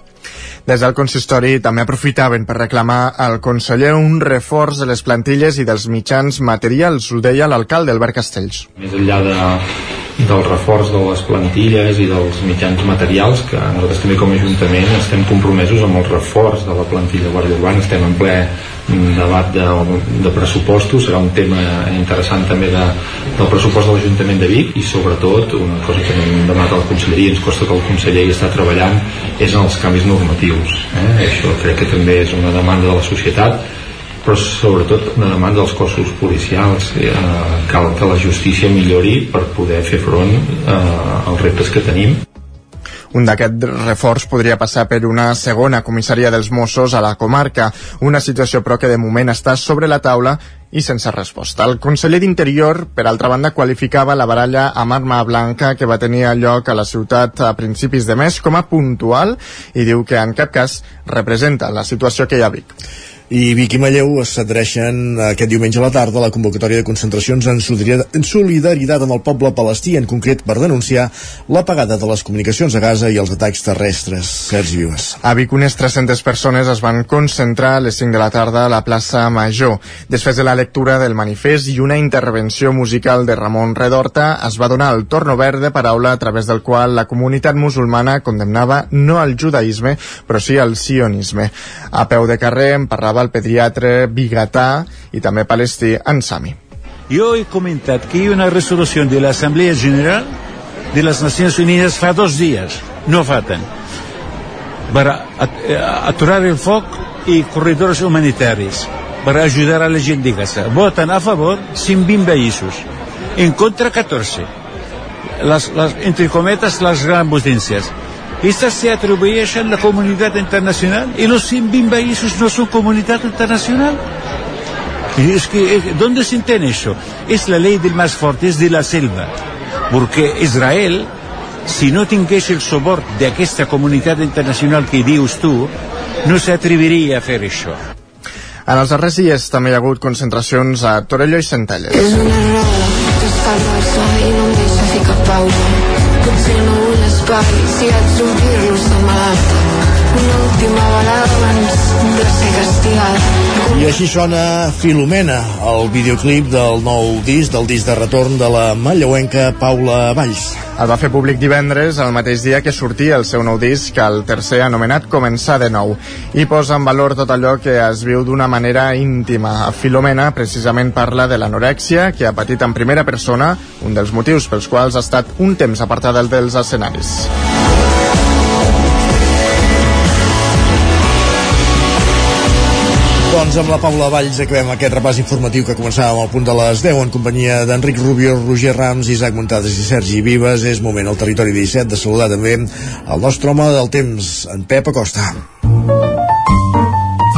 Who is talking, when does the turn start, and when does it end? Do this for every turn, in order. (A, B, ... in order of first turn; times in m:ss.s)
0:00.7-0:08.7 A
0:08.8-0:09.6 B
0:10.2-0:33.6 B
0:34.2-0:42.2 B
0:43.1-1:02.7 A
1:03.3-1:15.2 C
1:15.2-1:36.6 A
1:37.1-1:40.3 D
1:40.9-1:43.6 D
1:44.9-1:54.5 D
1:55.4-2:04.0 D
2:05.1-2:09.3 D
2:09.9-2:11.1 D
2:11.7-2:15.7 D
2:16.2-2:17.8 D
2:18.7-2:22.2 A
2:21.9-2:29.6 E
2:30.1-2:33.8 E
2:33.7-2:40.6 C
2:40.8-2:57.3 A
3:03.3-3:15.4 C